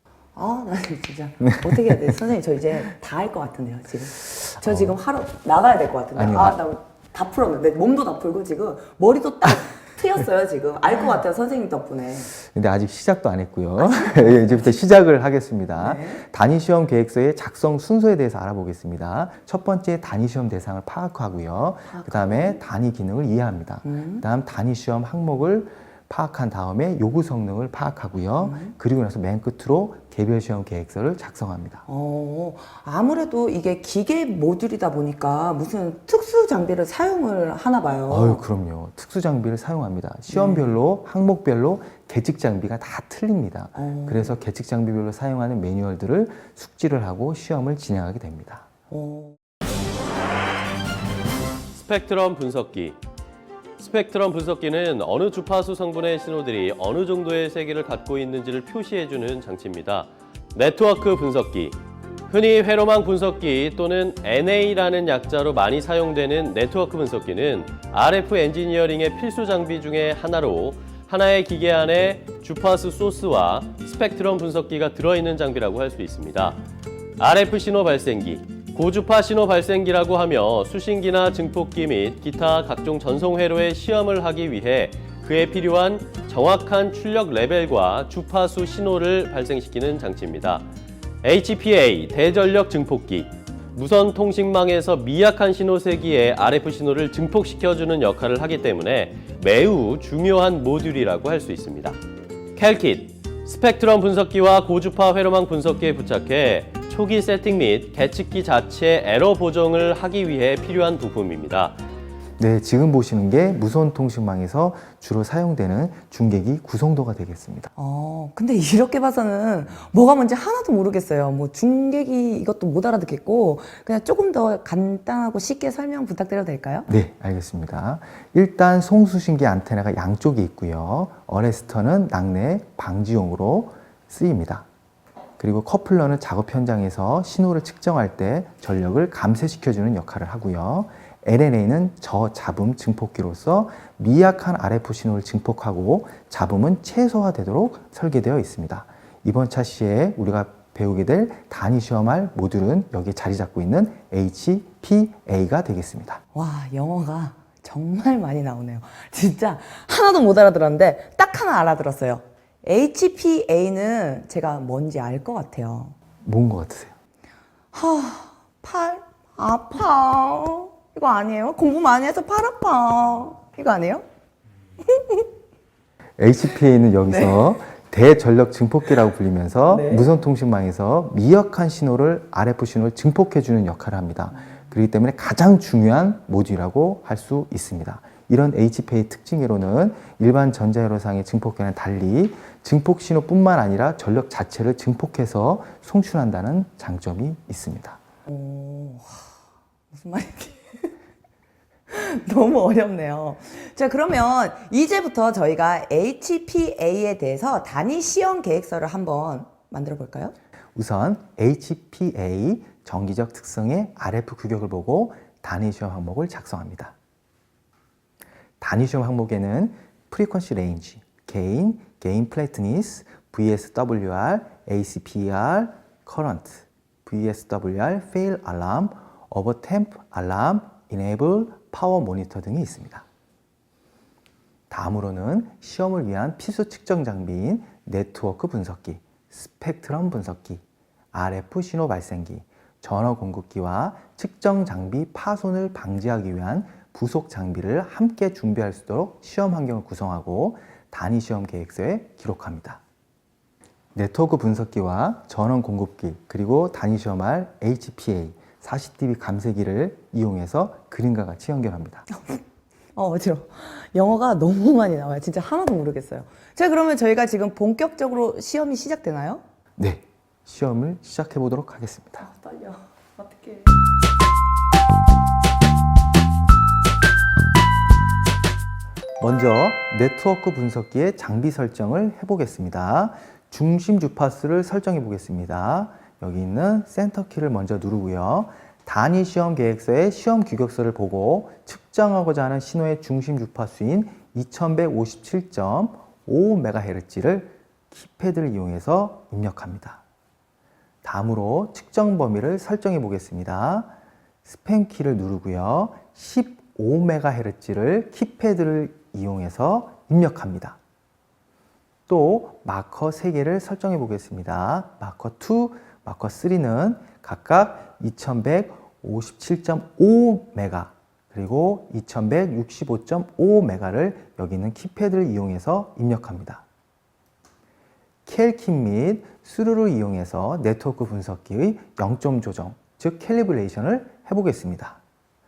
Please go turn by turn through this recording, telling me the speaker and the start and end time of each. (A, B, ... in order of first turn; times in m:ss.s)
0:00.3-0:12.3 A
0:01.4-0:02.1 B
0:04.6-0:04.9 B
0:06.2-0:06.6 B
0:12.3-0:31.8 B
0:13.8-0:14.6 A
0:15.8-0:16.2 A
0:21.9-0:22.6 A
0:23.8-0:24.2 A
0:28.4-0:28.7 A
0:31.9-0:38.4 A
0:38.1-0:48.7 B
0:40.3-0:40.7 A
0:43.8-0:44.3 A
0:48.9-0:49.4 A
0:51.7-0:53.0 C
0:53.8-1:01.8 C
1:02.3-1:16.6 C
1:17.2-1:30.6 C
1:31.2-1:42.0 C
1:42.6-1:51.8 C
1:52.4-1:57.7 B
1:57.8-2:06.9 A
2:06.9-2:14.6 B
2:15.4-2:36.2 B
2:36.3-2:45.9 A
2:46.2-2:46.9 B
2:47.7-2:54.0 A
2:54.8-2:55.2 A
2:56.2-3:18.0 B
2:57.1-2:57.4 A
2:59.7-3:00.1 A
3:18.2-3:19.3 A
3:19.9-3:20.9 A
3:21.9-3:30.3 A
3:30.7-3:36.9 B
3:38.6-3:53.0 B
3:54.7-4:12.8 B
4:13.9-4:22.1 B
4:22.1-4:22.4 A
4:23.0-4:29.4 A
4:29.8-4:32.2 B
4:32.2-4:33.7 A
4:39.2-5:00.0 B
5:01.0-5:03.9 B
5:04.4-5:10.8 B
5:12.1-5:26.6 B
5:28.2-5:35.0 B